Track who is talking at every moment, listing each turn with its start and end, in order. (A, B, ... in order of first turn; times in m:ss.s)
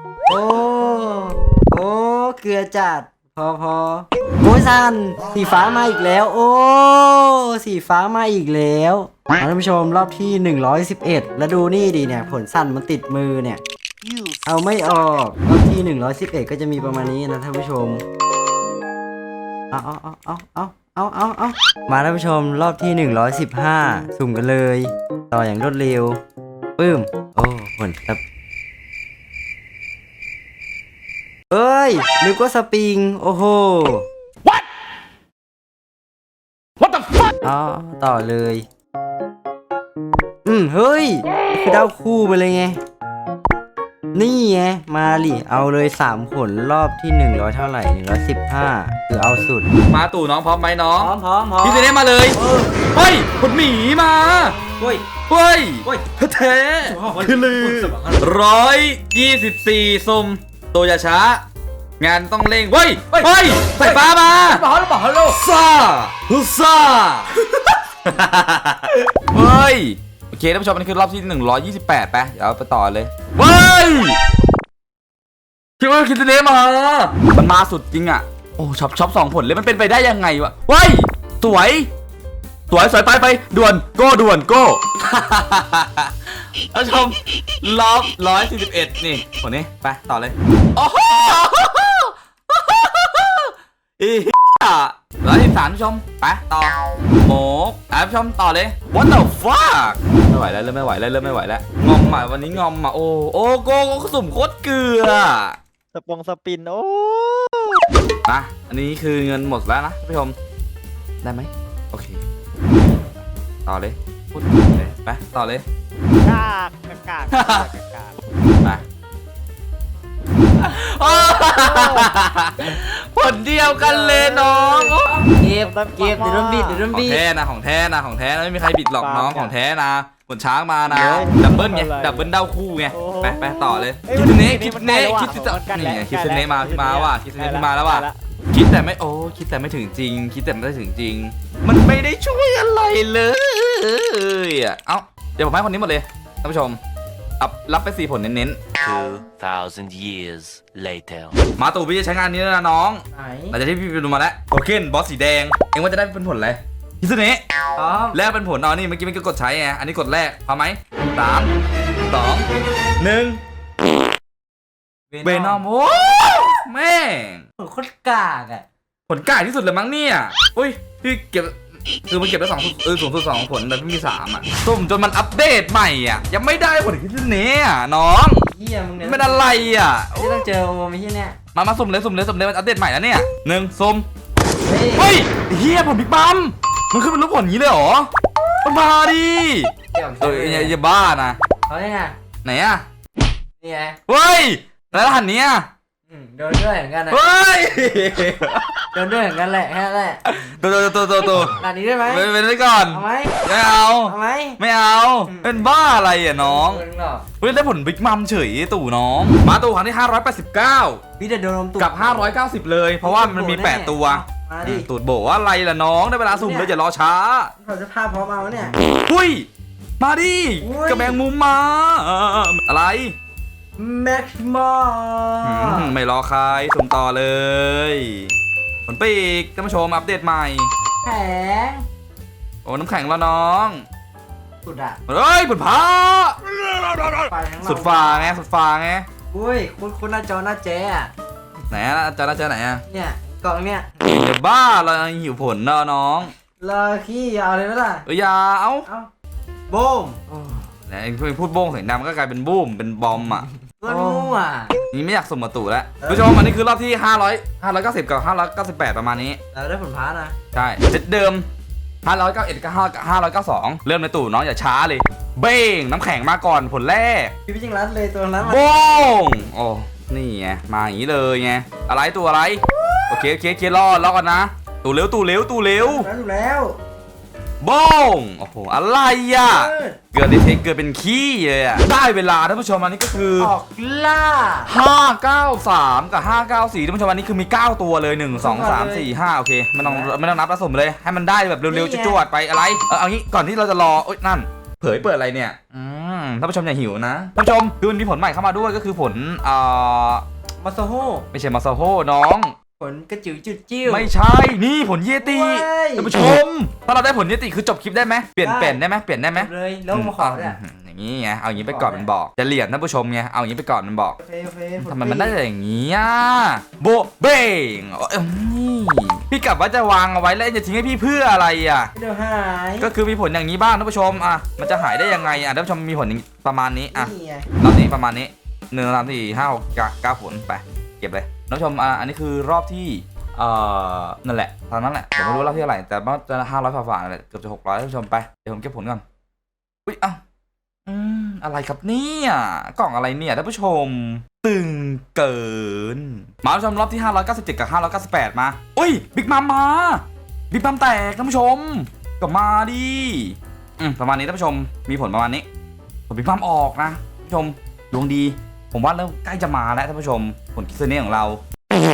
0:00.3-0:13.6 A
0:14.4-0:18.0 A
0:19.7-0:26.2 A
0:26.8-0:28.2 A
0:31.5-0:34.1 A
0:37.4-0:38.6 A
0:40.4-0:42.8 A
0:44.1-0:49.7 A
0:49.9-0:52.4 B
0:51.0-0:52.5 A
0:52.9-0:54.6 B
0:54.4-0:55.0 A
0:54.7-0:55.0 C
0:55.3-1:01.4 B
0:56.9-0:58.2 C
1:02.0-1:04.6 B
1:03.1-1:05.4 C
1:05.3-1:07.4 B
1:08.0-1:14.2 B
1:15.8-1:21.9 B
1:22.7-1:26.1 B
1:26.7-1:45.6 B
1:41.2-1:42.6 D
1:45.9-1:47.8 D
1:48.3-1:50.4 B
1:51.2-1:52.2 B
1:53.7-1:55.6 B
1:56.2-1:58.2 D
1:57.3-1:57.7 B
2:00.6-2:05.2 B
2:00.8-2:02.1 D
2:03.7-2:05.0 D
2:05.2-2:07.2 C
2:05.6-2:06.8 D
2:06.9-2:26.8 B
2:09.0-2:09.6 D
2:10.9-2:12.3 D
2:12.9-2:18.2 D
2:27.4-2:28.6 B
2:28.8-2:31.4 E
2:31.6-2:37.4 B
2:33.1-2:33.6 A
2:37.8-2:38.2 A
2:38.1-2:41.5 B
2:42.1-2:42.5 B
2:43.0-2:43.4 B
2:45.1-2:45.6 A
2:45.2-2:47.4 B
2:47.6-2:48.6 A
2:49.1-2:51.6 B
2:52.1-2:58.5 B
2:58.4-2:59.5 A
2:59.0-3:00.3 B
3:00.2-3:01.4 A
3:01.6-3:04.1 B
3:04.6-3:05.2 A
3:05.0-3:08.1 B
3:08.6-3:11.4 B
3:10.0-3:10.7 A
3:10.3-3:10.7 C
3:11.7-3:12.2 A
3:12.4-3:12.8 B
3:13.6-3:14.0 A
3:14.1-3:15.7 B
3:16.1-3:17.2 A
3:17.1-3:18.8 B
3:18.9-3:20.2 A
3:20.2-3:26.8 B
3:21.6-3:22.3 A
3:22.9-3:23.4 A
3:24.0-3:24.6 A
3:25.3-3:25.7 A
3:26.4-3:27.2 A
3:27.4-3:31.0 B
3:31.2-3:32.4 A
3:31.8-3:37.5 B
3:33.0-3:34.9 A
3:36.3-3:36.7 A
3:37.6-3:38.8 A
3:39.0-3:39.5 B
3:40.0-3:43.2 B
3:40.6-3:41.2 A
3:43.8-3:45.9 A
3:45.4-3:48.3 B
3:48.9-3:50.7 B
3:51.0-3:51.8 A
3:52.6-3:53.8 B
3:54.6-3:55.0 A
3:55.1-3:56.4 B
3:57.3-3:58.4 A
3:57.6-3:59.1 B
3:59.3-4:01.1 A
4:01.7-4:02.8 B
4:02.9-4:03.9 A
4:04.0-4:06.3 B
4:06.6-4:08.1 A
4:08.1-4:08.9 B
4:09.7-4:10.6 A
4:10.9-4:13.5 B
4:13.8-4:14.8 A
4:14.9-4:19.4 B
4:16.0-4:16.3 A
4:19.5-4:20.4 A
4:20.5-4:21.5 B
4:22.0-4:27.4 B
4:27.5-4:28.7 A
4:28.4-4:36.1 B
4:32.7-4:33.2 A
4:35.8-4:36.8 A
4:37.6-4:43.5 B
4:39.4-4:40.0 A
4:43.4-4:44.7 A
4:44.7-5:00.2 B
4:48.3-4:49.1 A
4:49.8-4:50.1 A
4:51.7-4:52.2 A
5:00.6-5:01.3 A
5:01.3-5:02.6 B
5:02.8-5:04.1 A
5:03.9-5:14.2 B
5:05.2-5:06.2 A
5:08.4-5:08.8 A
5:09.4-5:10.6 A
5:11.6-5:12.1 A
5:14.2-5:15.4 A
5:14.8-5:21.9 B
5:22.0-5:22.9 A
5:22.8-5:39.0 B
5:26.9-5:27.4 A
5:39.9-5:40.2 B
5:40.9-5:55.5 B
5:56.1-6:01.4 B